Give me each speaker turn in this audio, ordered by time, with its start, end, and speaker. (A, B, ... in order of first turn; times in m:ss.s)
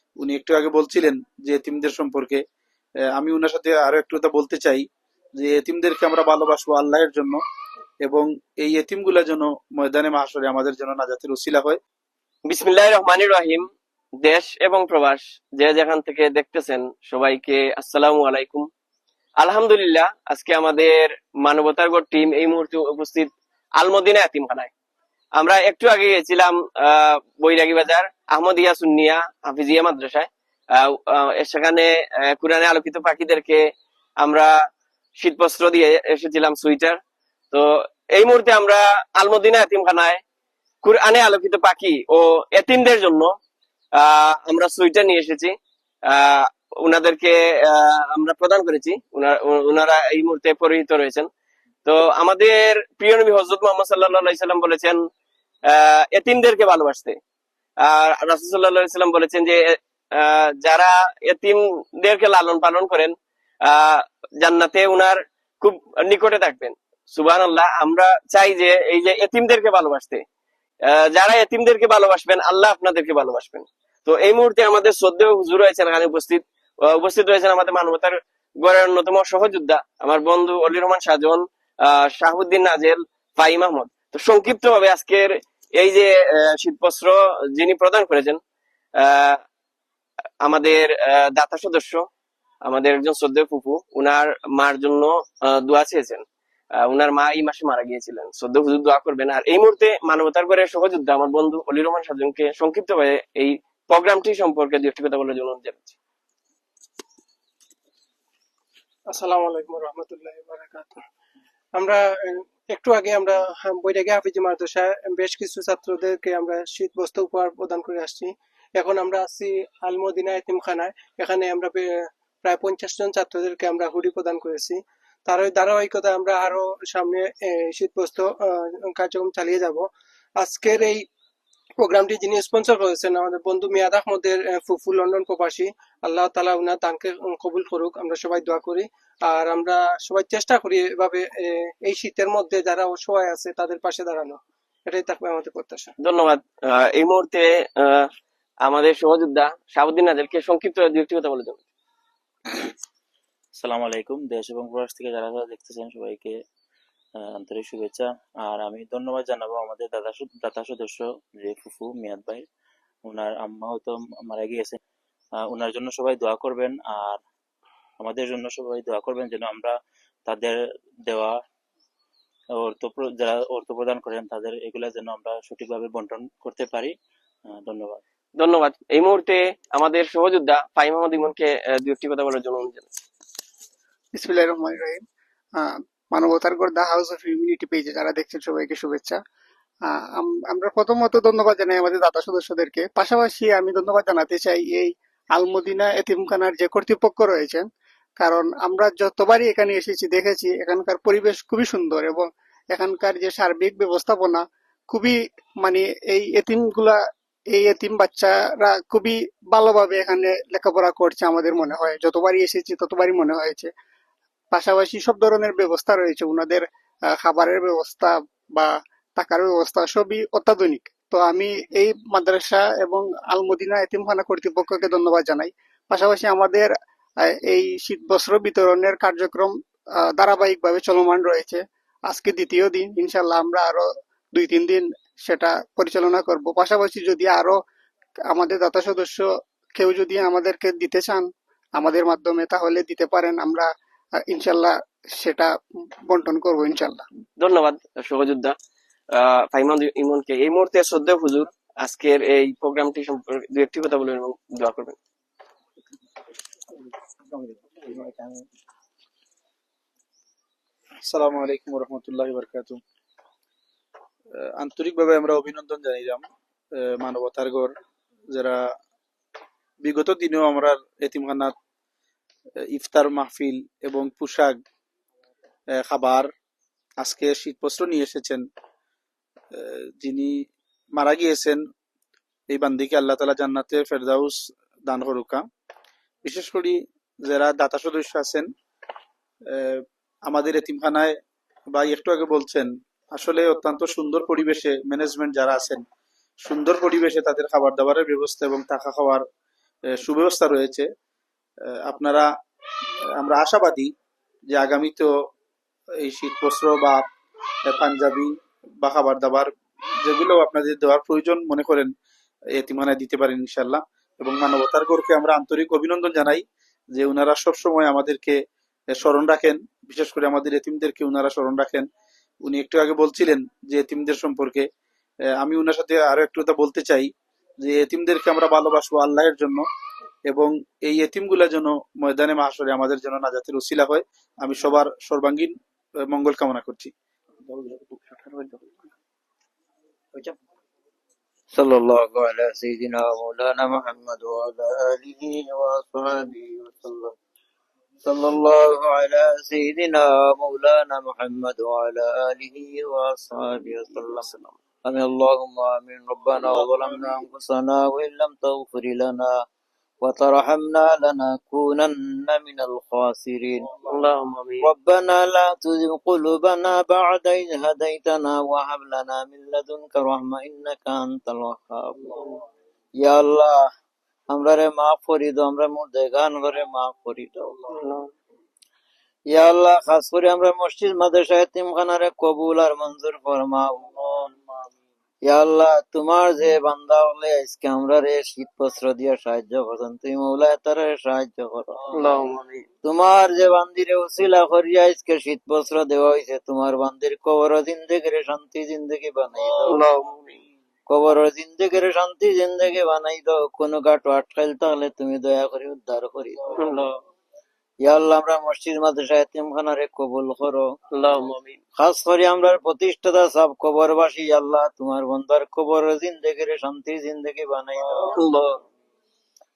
0:00.2-0:02.4 A
0:03.2-0:04.8 A
0:05.4-0:07.4 A
0:08.0-0:11.8 A
0:12.5-0:13.7 B
0:14.2-0:18.7 B
0:19.4-0:24.7 B
0:25.4-0:33.6 B
0:34.2-0:34.5 B
0:35.2-0:37.0 B
0:37.5-0:40.2 B
0:40.8-0:43.3 B
0:44.0-0:45.5 B
0:46.1-0:51.3 B
0:51.8-0:55.0 B
0:55.7-0:57.2 B
0:57.8-1:03.1 B
1:03.7-1:10.2 B
1:10.9-1:28.4 B
1:29.0-1:29.4 B
1:30.4-1:32.0 B
1:32.6-1:36.2 B
1:36.8-1:46.0 B
1:49.1-1:51.0 C
1:51.8-2:11.1 C
2:11.8-2:25.9 C
2:26.0-2:28.1 B
2:28.7-2:31.6 B
2:33.6-2:36.3 D
2:37.4-2:42.5 D
2:43.1-2:44.8 D
2:45.5-2:47.2 D
2:48.0-2:49.7 D
2:50.3-2:51.4 D
2:52.6-2:56.9 D
2:57.5-2:58.0 D
2:58.4-3:02.9 B
3:04.2-3:05.0 E
3:05.6-3:09.2 E
3:09.9-3:17.7 E
3:18.2-3:27.0 E
3:27.5-3:33.7 E
3:34.5-3:36.6 E
3:37.2-3:46.7 E
3:47.2-3:49.5 E
3:50.2-3:57.6 E
3:58.3-3:59.2 E
3:59.8-4:03.7 E
4:04.3-4:05.5 E
4:06.1-4:07.0 E
4:07.4-4:08.5 B
4:09.2-4:15.0 B
4:17.3-4:18.4 F
4:21.1-4:22.8 A
4:24.6-4:26.2 A
4:26.8-4:27.7 A
4:28.3-4:28.6 A
4:29.8-4:31.5 A
4:32.7-4:34.6 A
4:35.8-4:36.3 A
4:37.0-4:38.4 A
4:39.6-4:40.3 A
4:41.0-4:41.6 A
4:42.5-4:45.4 A
4:46.2-4:48.5 A
4:49.5-4:51.1 A
4:51.7-4:55.8 A
4:56.4-4:59.2 A
5:00.0-5:00.9 A
5:01.8-5:02.3 A
5:03.2-5:03.9 A
5:04.5-5:05.1 A
5:06.0-5:07.0 A
5:07.6-5:09.5 A
5:10.0-5:11.9 A
5:12.5-5:16.4 A
5:17.0-5:18.4 A
5:18.9-5:21.9 A
5:22.4-5:24.7 A
5:25.4-5:27.1 A
5:27.6-5:29.6 A
5:30.3-5:35.5 A
5:36.1-5:36.9 A
5:37.5-5:38.6 B
5:41.5-5:47.1 F
5:48.0-5:54.3 F
5:54.8-5:59.3 F
6:00.0-6:03.8 F
6:03.9-6:04.7 B
6:04.6-6:12.2 F
6:13.0-6:13.6 F
6:14.3-6:17.6 F
6:17.8-6:18.1 B
6:19.3-6:24.3 F
6:25.2-6:32.0 F
6:31.9-6:32.6 B
6:32.8-6:39.8 F
6:39.7-6:40.3 B
6:40.9-6:46.5 F
6:46.6-6:47.0 B
6:47.8-6:50.7 F
6:50.9-6:51.6 B
6:51.8-6:58.2 F
6:57.9-6:58.6 B